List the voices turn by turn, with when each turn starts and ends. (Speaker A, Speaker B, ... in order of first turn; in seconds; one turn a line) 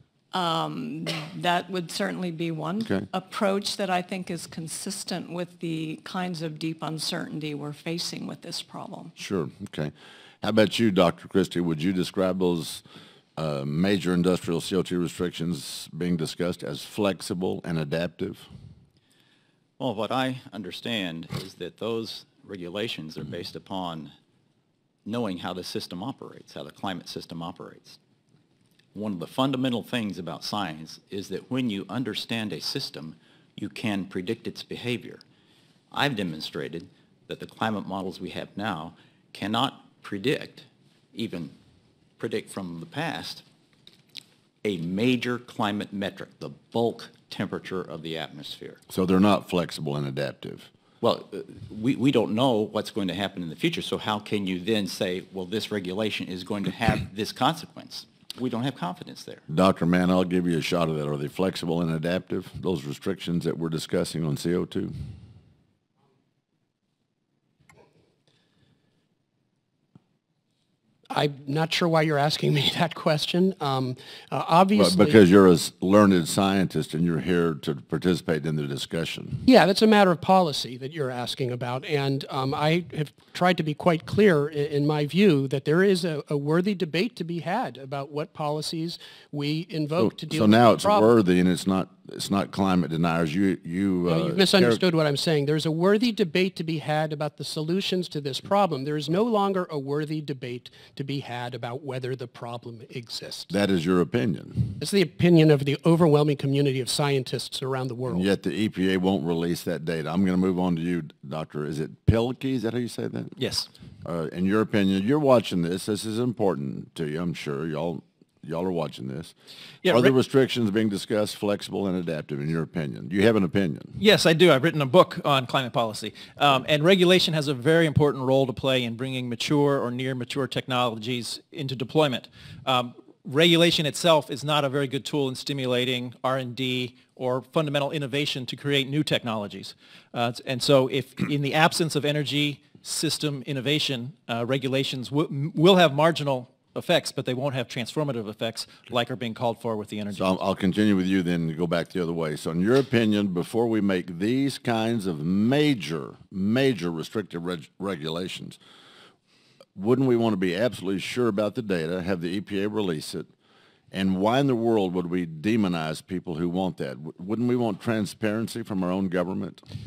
Speaker A: 0.3-9.1
Speaker B: 9.2-12.8
Speaker B: 13.4-18.5
Speaker C: 19.8-24.1
Speaker C: 25.0-28.0
Speaker C: 28.9-35.2
Speaker C: 35.9-41.5
Speaker C: 42.2-43.4
Speaker C: 44.6-48.8
Speaker B: 48.9-50.7
Speaker C: 51.0-59.4
Speaker B: 59.5-65.0
Speaker D: 71.1-75.2
Speaker B: 74.7-79.4
Speaker D: 79.4-91.2
Speaker B: 90.0-94.8
Speaker D: 94.1-103.5
Speaker B: 103.5-104.8
Speaker D: 104.8-108.3
Speaker B: 108.1-113.3
Speaker E: 113.4-113.7
Speaker B: 114.0-119.3
Speaker E: 119.8-120.1
Speaker B: 119.8-124.0
Speaker E: 124.0-150.4
Speaker B: 150.1-158.6
Speaker B: 159.8-163.3
Speaker B: 163.9-169.6